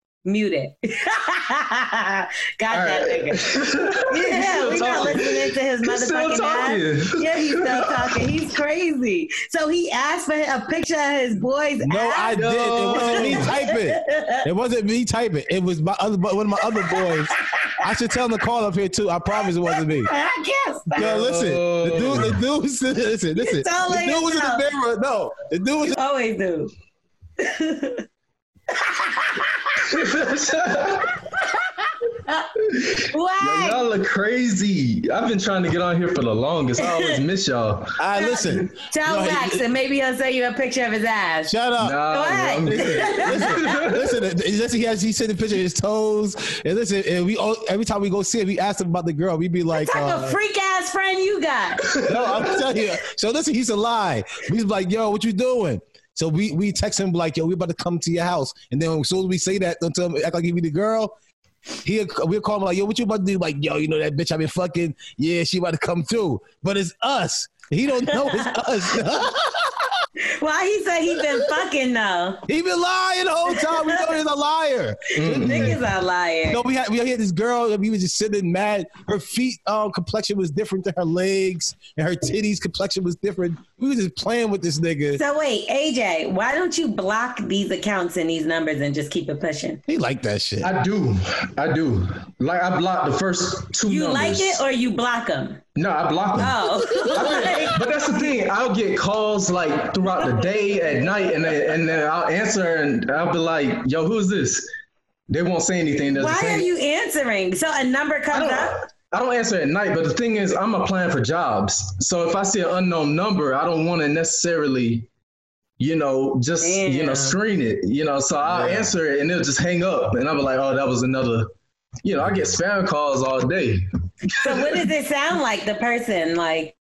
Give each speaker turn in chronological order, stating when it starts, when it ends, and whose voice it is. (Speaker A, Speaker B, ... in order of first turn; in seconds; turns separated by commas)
Speaker A: 0.2-3.5, Speaker B: 2.7-8.2, Speaker A: 4.1-14.4, Speaker C: 11.8-20.1, Speaker B: 12.3-13.6, Speaker A: 19.6-21.3, Speaker B: 20.9-22.4, Speaker C: 20.9-26.0, Speaker A: 23.4-24.6, Speaker A: 25.9-26.7, Speaker A: 27.4-28.0, Speaker A: 28.9-29.5, Speaker B: 29.9-31.1, Speaker B: 32.6-38.4, Speaker A: 33.1-33.8, Speaker C: 38.0-39.6, Speaker A: 38.1-41.5, Speaker C: 41.5-42.0, Speaker B: 41.8-44.1, Speaker A: 42.1-43.7, Speaker C: 42.6-50.4, Speaker A: 49.7-51.9, Speaker B: 51.9-52.6, Speaker C: 52.0-61.1, Speaker C: 61.8-69.9, Speaker A: 68.1-68.5, Speaker A: 70.3-72.4, Speaker C: 72.5-75.8, Speaker A: 73.5-74.1, Speaker B: 75.2-75.8, Speaker A: 75.2-76.6, Speaker C: 76.5-85.2, Speaker A: 85.1-89.8, Speaker C: 89.9-90.7, Speaker B: 90.6-94.6, Speaker A: 93.9-95.6, Speaker B: 95.8-96.6, Speaker A: 96.4-97.9, Speaker C: 96.8-97.6, Speaker B: 97.1-104.7, Speaker B: 105.3-106.7, Speaker A: 106.1-108.8, Speaker B: 108.3-115.1, Speaker B: 115.8-121.5, Speaker A: 116.6-117.4, Speaker C: 118.4-118.9, Speaker B: 122.0-123.8, Speaker A: 124.4-126.7, Speaker B: 124.4-124.8